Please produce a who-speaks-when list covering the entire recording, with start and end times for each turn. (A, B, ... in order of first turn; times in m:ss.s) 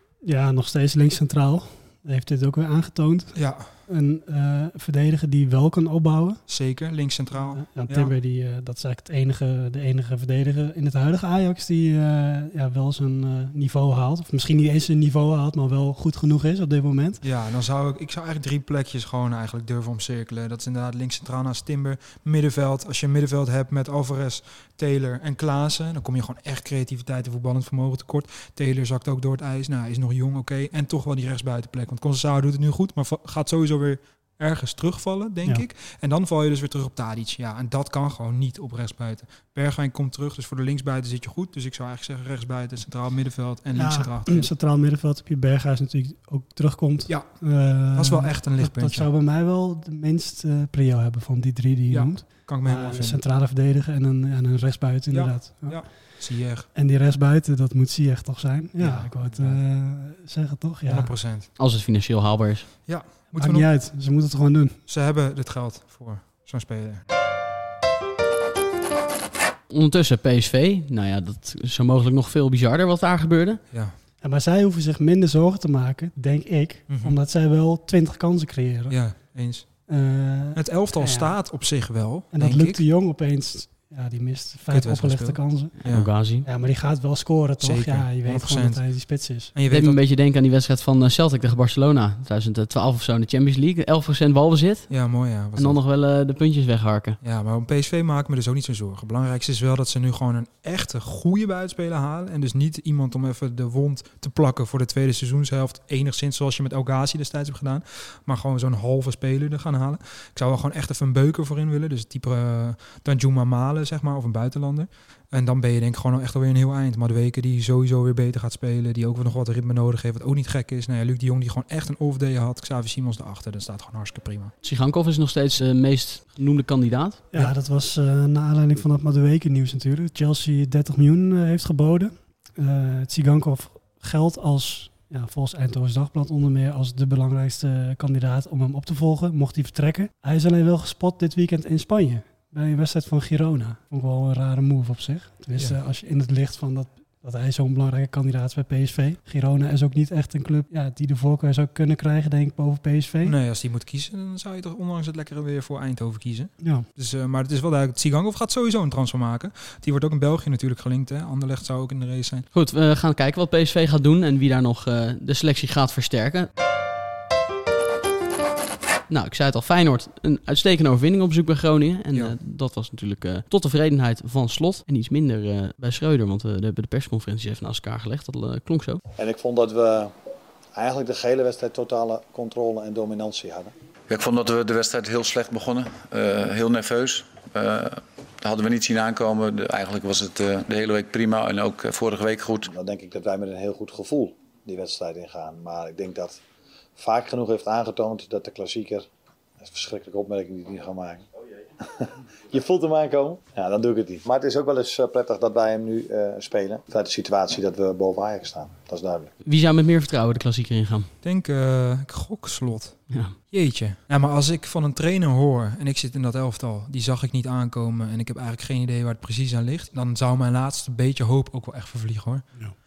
0:00.2-0:06.4 A
0:03.3-0:03.6 B
0:06.5-0:08.1 B
0:07.3-0:17.2 A
0:17.2-0:44.5 B
0:43.7-1:01.2 A
0:47.1-0:49.1 B
0:51.9-0:53.2 B
0:55.1-0:56.7 B
0:58.8-0:59.6 B
1:00.8-1:01.5 B
1:01.6-1:02.7 C
1:02.8-1:03.7 B
1:03.3-1:04.8 A
1:04.9-1:07.0 B
1:09.7-1:13.6 C
1:14.2-1:19.0 A
1:16.9-1:17.2 B
1:18.9-1:19.6 B
1:19.9-1:21.4 A
1:20.5-1:22.8 B
1:22.3-1:25.8 A
1:24.7-1:26.1 B
1:25.8-1:26.5 C
1:26.4-1:29.5 A
1:27.6-1:28.8 B
1:29.5-1:30.0 B
1:29.7-1:35.0 C
1:34.9-1:35.8 B
1:35.5-1:37.2 C
1:37.2-2:04.5 B
2:04.6-2:07.5 C
2:07.3-2:33.3 A
2:33.2-2:42.5 B
2:36.6-2:36.8 A
2:42.5-2:46.5 C
2:49.1-2:59.0 C
2:59.2-3:00.1 D
3:00.8-3:03.7 D
3:04.1-3:12.7 E
3:12.6-3:16.4 D
3:17.0-3:19.0 D
3:19.6-3:21.2 D
3:21.8-3:29.3 D
3:29.4-3:31.1 C
3:31.2-3:33.0 B
3:33.5-3:42.4 B